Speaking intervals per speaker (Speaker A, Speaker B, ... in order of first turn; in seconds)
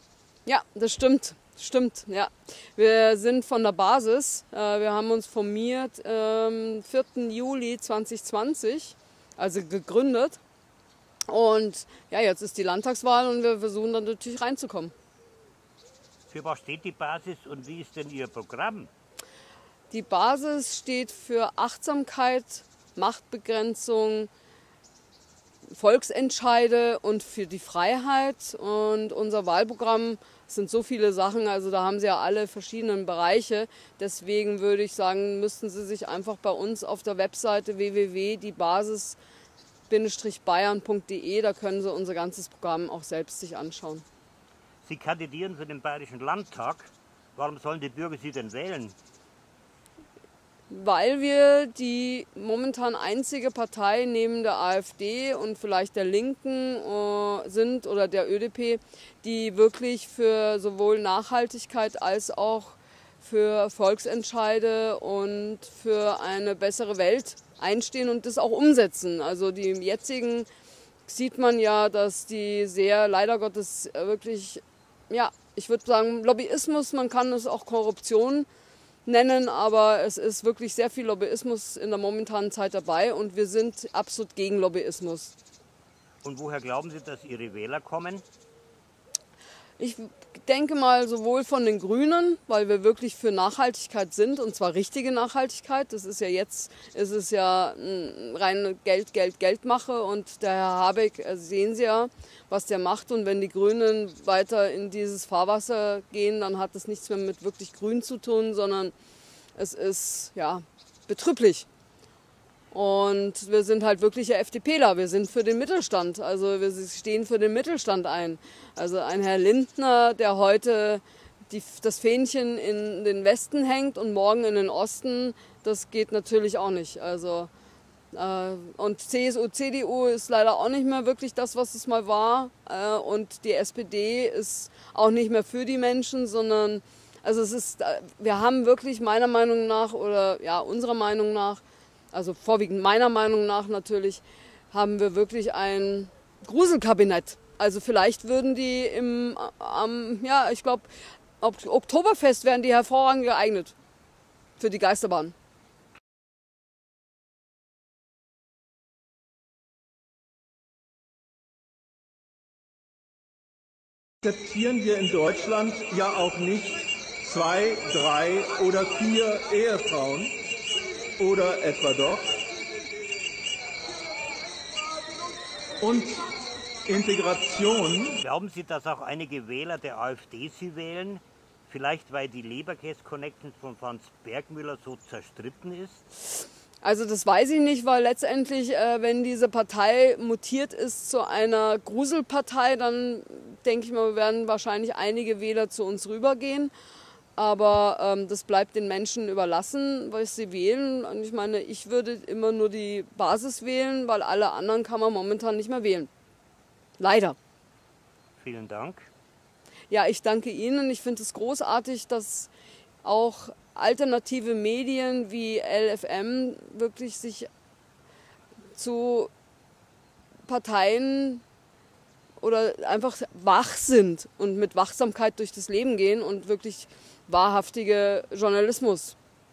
Speaker A: 0.5-10.4, 11.3-14.9, 19.9-24.3, 25.7-39.2, 39.9-44.0, 50.7-70.5, 71.1-78.5, 79.0-85.3, 89.8-108.9, 109.6-111.7, 112.7-127.5, 128.1-153.7, 154.6-155.3, 186.8-196.7, 197.4-206.1, 207.0-207.4, 209.9-212.5, 213.0-217.5, 218.8-219.3, 220.5-221.4, 222.4-229.2
Speaker B: 16.3-18.9, 44.8-49.0, 86.2-88.2, 178.2-186.0, 208.4-209.1
Speaker C: 164.2-170.3, 171.2-172.3, 175.8-176.2, 176.8-178.2